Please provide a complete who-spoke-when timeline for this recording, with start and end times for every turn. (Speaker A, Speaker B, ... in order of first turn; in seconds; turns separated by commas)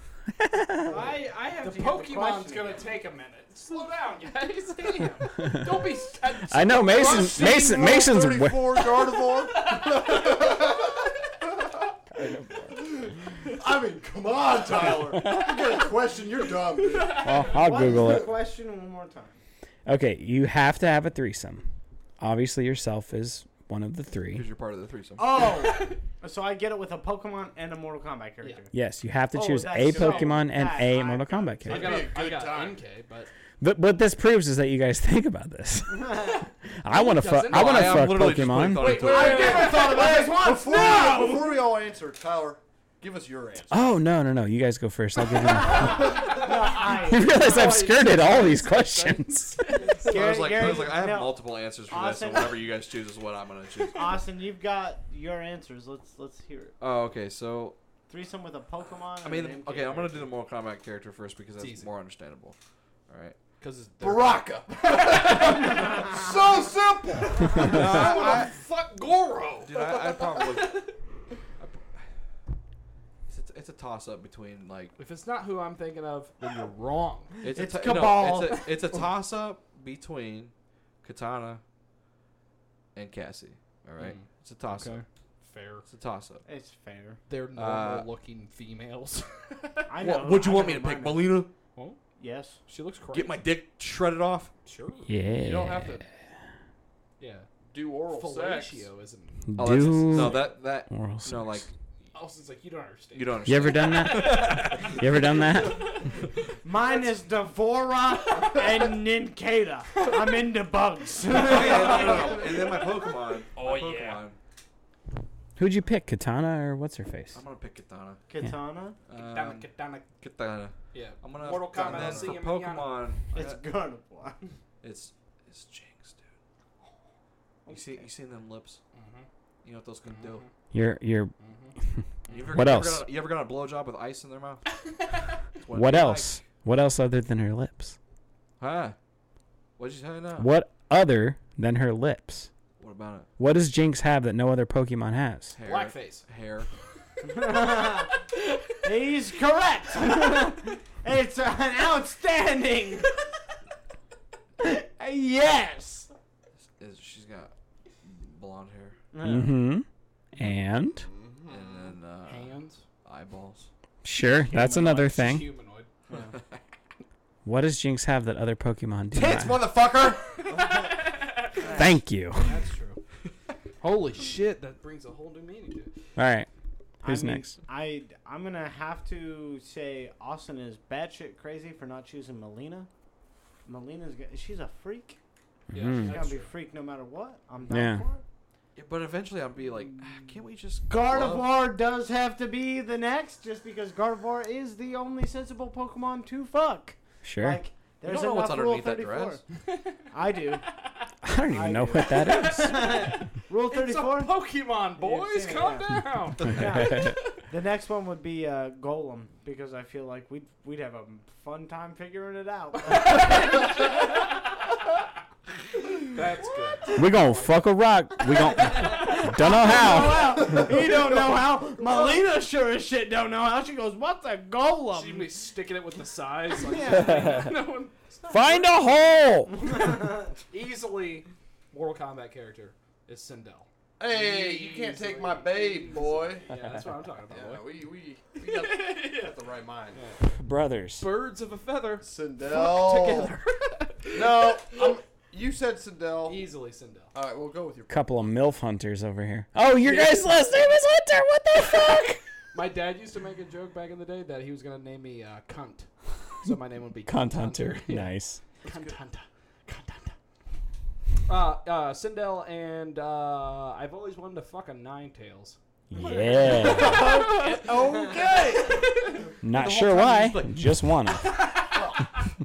Speaker A: 0.3-1.0, Speaker B: 0.8-2.8, Speaker C: 0.9-7.8, Speaker A: 5.4-5.8, Speaker A: 6.5-8.9, Speaker D: 6.8-11.9, Speaker C: 9.4-10.5, Speaker A: 12.1-12.7, Speaker D: 12.7-18.3, Speaker A: 15.1-15.7, Speaker C: 16.8-17.6, Speaker A: 17.2-18.3, Speaker B: 17.5-19.4, Speaker A: 19.9-21.7, Speaker A: 22.2-24.4, Speaker E: 24.3-25.5, Speaker B: 25.2-28.7, Speaker C: 25.6-26.0, Speaker A: 28.7-32.0, Speaker B: 29.3-32.0, Speaker D: 29.9-30.3, Speaker D: 31.6-32.8, Speaker C: 31.7-33.3, Speaker A: 33.6-39.0, Speaker B: 35.9-36.5, Speaker C: 36.9-38.1, Speaker E: 37.5-39.8, Speaker D: 38.8-43.9, Speaker C: 38.8-40.2, Speaker B: 38.8-41.7, Speaker A: 43.7-46.3, Speaker B: 45.5-47.8, Speaker C: 45.6-50.6, Speaker A: 47.0-49.9, Speaker B: 50.0-52.6, Speaker E: 50.1-54.2, Speaker B: 53.9-56.7, Speaker E: 56.8-57.8, Speaker B: 58.1-60.3, Speaker E: 59.2-62.5, Speaker C: 61.6-61.9, Speaker E: 63.1-63.4, Speaker C: 63.6-65.8, Speaker D: 64.0-68.5, Speaker C: 67.4-71.0, Speaker E: 67.5-68.5, Speaker E: 69.6-70.8, Speaker E: 71.6-72.0, Speaker E: 73.3-74.9, Speaker C: 75.0-77.4, Speaker E: 77.4-81.6, Speaker B: 77.5-78.7, Speaker E: 82.9-85.0, Speaker C: 84.0-85.9, Speaker E: 85.9-86.4, Speaker B: 86.4-87.2, Speaker C: 87.3-89.9, Speaker E: 87.5-88.1, Speaker B: 89.9-91.3, Speaker E: 90.0-91.5, Speaker B: 92.2-92.6, Speaker C: 92.7-93.4, Speaker E: 93.1-94.5, Speaker C: 94.6-95.2, Speaker A: 95.1-96.0, Speaker D: 95.4-96.0, Speaker C: 97.2-97.5, Speaker D: 97.7-98.9, Speaker C: 98.1-99.7, Speaker A: 99.5-101.7, Speaker E: 99.5-101.7, Speaker C: 102.1-106.3, Speaker E: 103.1-105.0, Speaker A: 103.5-106.0, Speaker B: 106.6-112.6, Speaker E: 111.3-114.4, Speaker C: 111.5-112.7, Speaker D: 113.5-114.2, Speaker A: 115.5-117.4, Speaker E: 117.3-118.2, Speaker B: 118.3-119.0, Speaker E: 119.1-123.6, Speaker C: 119.1-120.1, Speaker C: 120.9-123.2, Speaker D: 121.7-122.4, Speaker B: 123.3-124.4, Speaker E: 124.8-126.3, Speaker B: 127.6-128.1, Speaker E: 127.7-128.8, Speaker C: 128.9-129.3, Speaker E: 129.6-130.4, Speaker C: 130.0-130.5, Speaker A: 130.7-133.1, Speaker C: 131.4-131.8, Speaker E: 132.3-134.6, Speaker E: 135.6-136.4, Speaker A: 135.7-137.9, Speaker E: 138.6-138.9, Speaker E: 139.8-140.5, Speaker A: 140.4-142.5, Speaker E: 142.8-143.3, Speaker A: 143.4-145.6, Speaker E: 145.6-146.7, Speaker C: 145.6-146.2, Speaker B: 147.2-148.2, Speaker B: 148.8-153.2, Speaker B: 154.6-156.1, Speaker E: 156.8-159.0, Speaker B: 159.1-159.6, Speaker A: 159.2-161.1, Speaker D: 160.9-161.9, Speaker E: 161.5-162.5, Speaker C: 162.2-162.8, Speaker E: 163.0-163.7, Speaker A: 164.0-165.5, Speaker C: 164.5-165.9, Speaker E: 166.1-166.6, Speaker A: 167.4-169.6, Speaker E: 169.1-170.2, Speaker C: 170.4-171.7, Speaker D: 170.6-170.9, Speaker B: 171.6-172.0, Speaker A: 171.7-172.6, Speaker C: 172.4-173.0, Speaker C: 173.8-175.9, Speaker A: 176.2-176.5, Speaker A: 177.0-177.6, Speaker B: 177.0-182.9, Speaker B: 183.6-185.2, Speaker C: 185.7-186.5, Speaker A: 185.7-186.2, Speaker B: 186.0-188.2, Speaker A: 187.7-188.1, Speaker E: 188.8-191.4, Speaker B: 190.9-199.4, Speaker A: 197.2-197.6, Speaker E: 198.0-199.4, Speaker C: 199.6-200.1, Speaker B: 200.1-200.6, Speaker A: 201.2-202.9, Speaker B: 201.5-204.3, Speaker C: 202.0-207.3, Speaker B: 205.0-214.3, Speaker E: 206.4-206.7, Speaker A: 206.5-207.2, Speaker C: 216.1-217.6, Speaker B: 216.9-217.2, Speaker A: 216.9-220.6, Speaker B: 218.2-225.3, Speaker C: 218.8-220.4, Speaker D: 219.8-222.2, Speaker C: 224.9-229.9, Speaker B: 226.6-227.5, Speaker A: 226.9-227.5, Speaker A: 228.3-229.8, Speaker B: 229.6-230.3, Speaker C: 230.5-237.7, Speaker D: 234.0-236.4, Speaker D: 237.3-240.0, Speaker C: 238.4-239.4, Speaker C: 239.9-240.3, Speaker A: 240.2-241.1, Speaker C: 241.0-244.9, Speaker D: 242.0-243.3, Speaker D: 244.1-246.4, Speaker C: 246.2-247.1, Speaker D: 247.1-247.9, Speaker A: 247.9-252.2, Speaker C: 249.8-250.7, Speaker C: 252.5-260.1, Speaker A: 257.1-258.4, Speaker C: 261.3-267.8, Speaker A: 265.9-267.2, Speaker D: 266.4-269.1, Speaker C: 268.4-269.3, Speaker A: 269.4-271.5, Speaker E: 269.4-270.9, Speaker C: 271.2-272.2, Speaker D: 271.6-272.2